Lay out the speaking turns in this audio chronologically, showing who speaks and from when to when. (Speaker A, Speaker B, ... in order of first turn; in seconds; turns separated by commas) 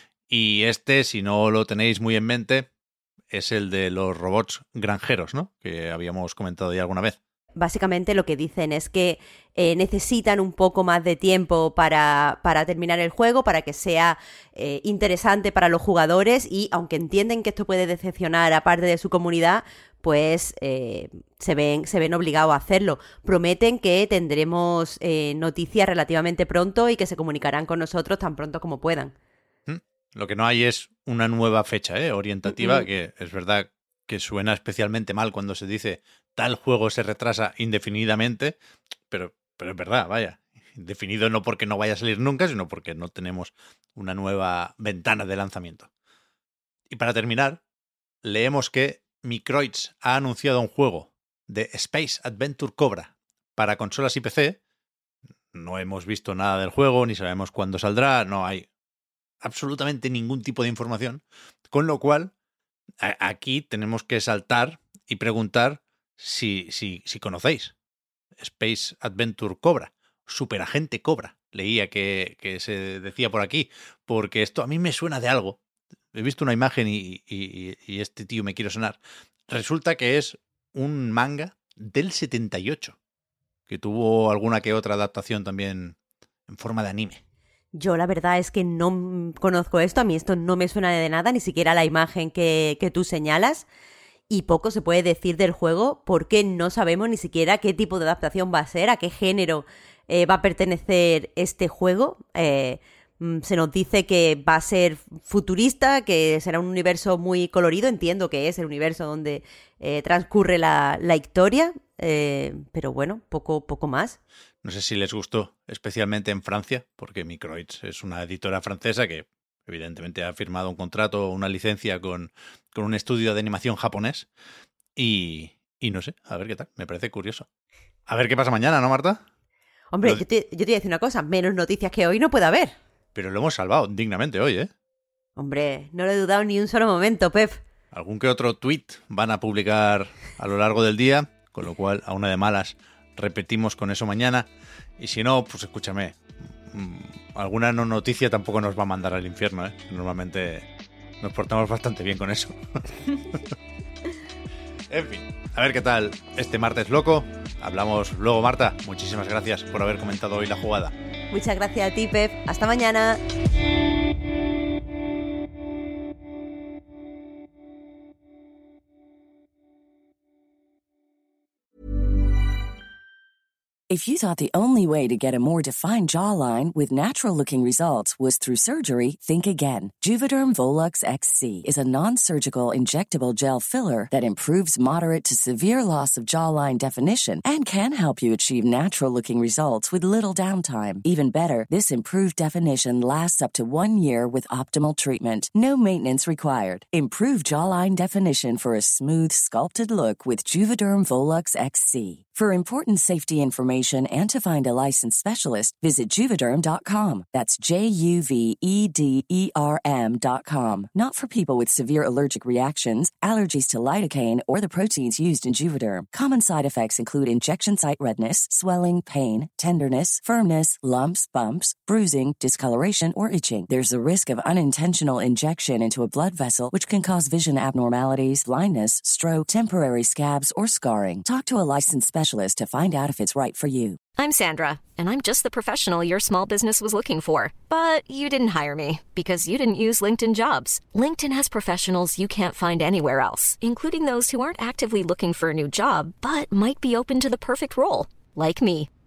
Speaker A: 0.3-2.7, Speaker A: 3.3-7.2, Speaker B: 7.6-29.1, Speaker A: 29.7-38.6, Speaker A: 39.1-45.9, Speaker A: 46.9-47.6, Speaker A: 48.2-54.6, Speaker A: 55.5-58.7, Speaker A: 59.4-62.3, Speaker A: 63.0-67.7, Speaker A: 68.4-75.6, Speaker A: 76.1-83.0, Speaker A: 83.7-86.0, Speaker A: 86.5-87.2, Speaker B: 87.8-93.7, Speaker B: 94.3-114.2, Speaker A: 114.6-124.3, Speaker A: 125.0-127.5, Speaker A: 128.1-129.2, Speaker B: 129.9-132.8, Speaker A: 133.2-134.7, Speaker B: 135.4-137.6, Speaker A: 137.9-144.5, Speaker A: 145.0-146.2, Speaker A: 146.7-150.7, Speaker A: 151.2-153.0, Speaker A: 154.9-160.9, Speaker B: 161.3-163.2, Speaker C: 173.9-234.0, Speaker D: 234.2-248.9